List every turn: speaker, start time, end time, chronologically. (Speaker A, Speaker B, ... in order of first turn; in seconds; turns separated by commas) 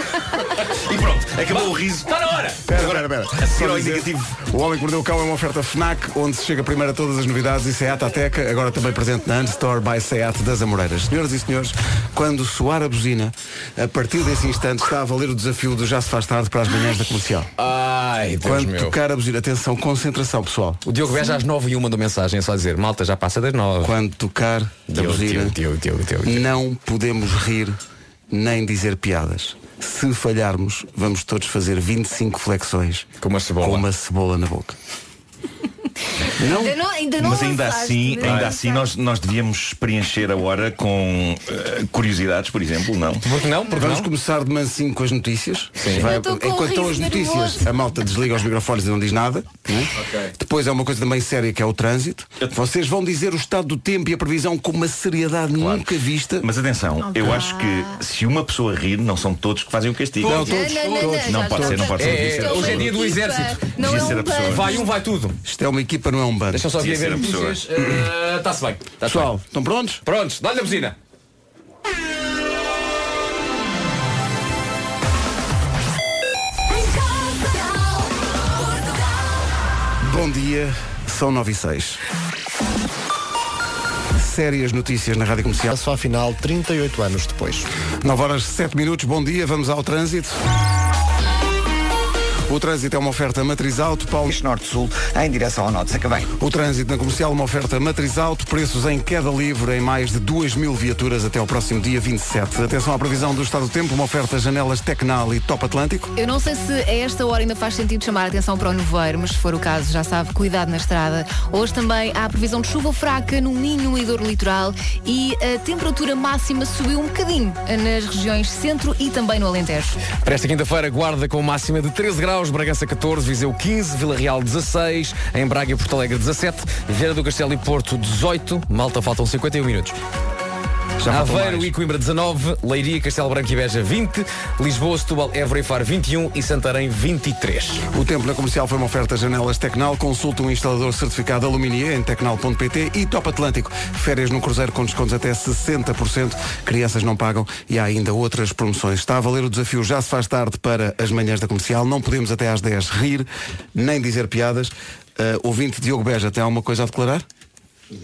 Speaker A: 0.8-4.3, Speaker B: 1.5-2.6, Speaker C: 2.7-17.5, Speaker B: 17.6-18.9, Speaker C: 18.4-20.8, Speaker B: 20.9-23.9, Speaker C: 23.8-25.6, Speaker B: 24.9-26.5, Speaker C: 26.2-27.8, Speaker C: 28.3-33.1, Speaker B: 33.2-33.9, Speaker C: 33.6-34.8, Speaker D: 36.3-38.9, Speaker C: 36.4-36.8, Speaker A: 37.2-43.3, Speaker B: 43.2-44.1, Speaker C: 43.7-56.5, Speaker B: 45.8-46.1, Speaker D: 45.9-47.7, Speaker A: 55.6-55.9, Speaker A: 56.4-60.6, Speaker D: 57.0-58.0, Speaker C: 60.2-62.2, Speaker D: 60.3-64.9, Speaker A: 61.3-62.9, Speaker B: 62.0-65.4, Speaker A: 63.8-64.8, Speaker C: 65.5-66.7, Speaker B: 66.5-69.3, Speaker A: 66.7-67.6, Speaker C: 69.0-70.0, Speaker B: 70.0-71.0, Speaker C: 80.0-82.0, Speaker C: 84.1-85.7, Speaker E: 85.7-87.7, Speaker C: 88.0-90.4, Speaker C: 92.5-94.3, Speaker F: 94.3-96.3, Speaker C: 96.4-106.1, Speaker D: 106.2-120.0, Speaker B: 120.2-130.0, Speaker C: 131.0-131.7, Speaker B: 131.1-137.8, Speaker C: 137.9-157.2